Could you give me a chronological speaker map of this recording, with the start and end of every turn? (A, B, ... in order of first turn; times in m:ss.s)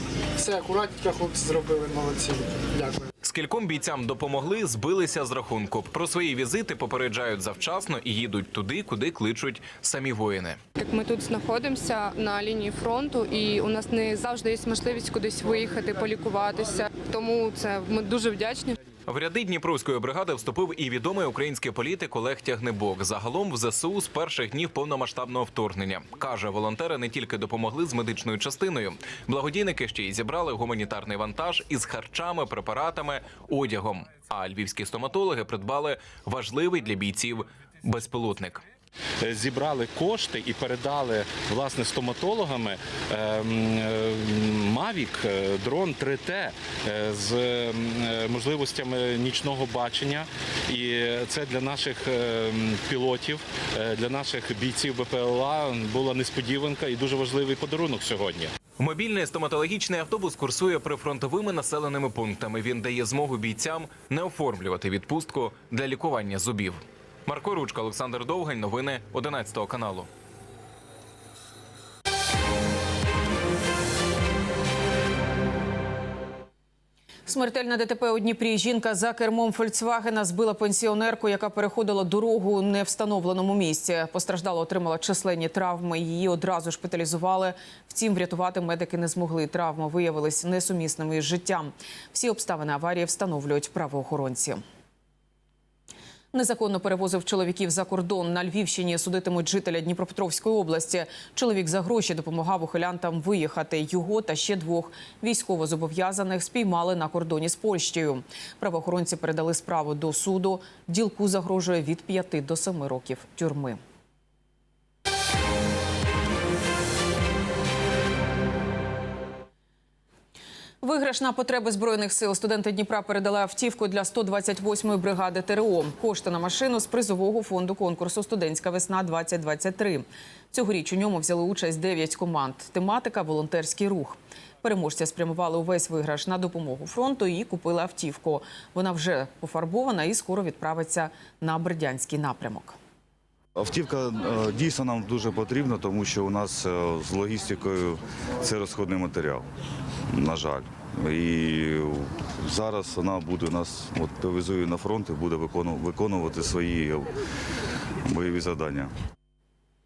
0:00.4-0:03.0 A
0:03.2-0:10.6 B
0:10.8-0:18.8 C
0:19.1-0:38.6 B
0:39.2-0:58.5 D
0:58.8-1:10.1 B
1:17.3-1:34.6 E
1:36.3-1:53.8 E
2:00.8-2:22.8 E
2:23.6-2:29.4 F
2:30.1-2:37.1 F
2:38.1-2:38.9 F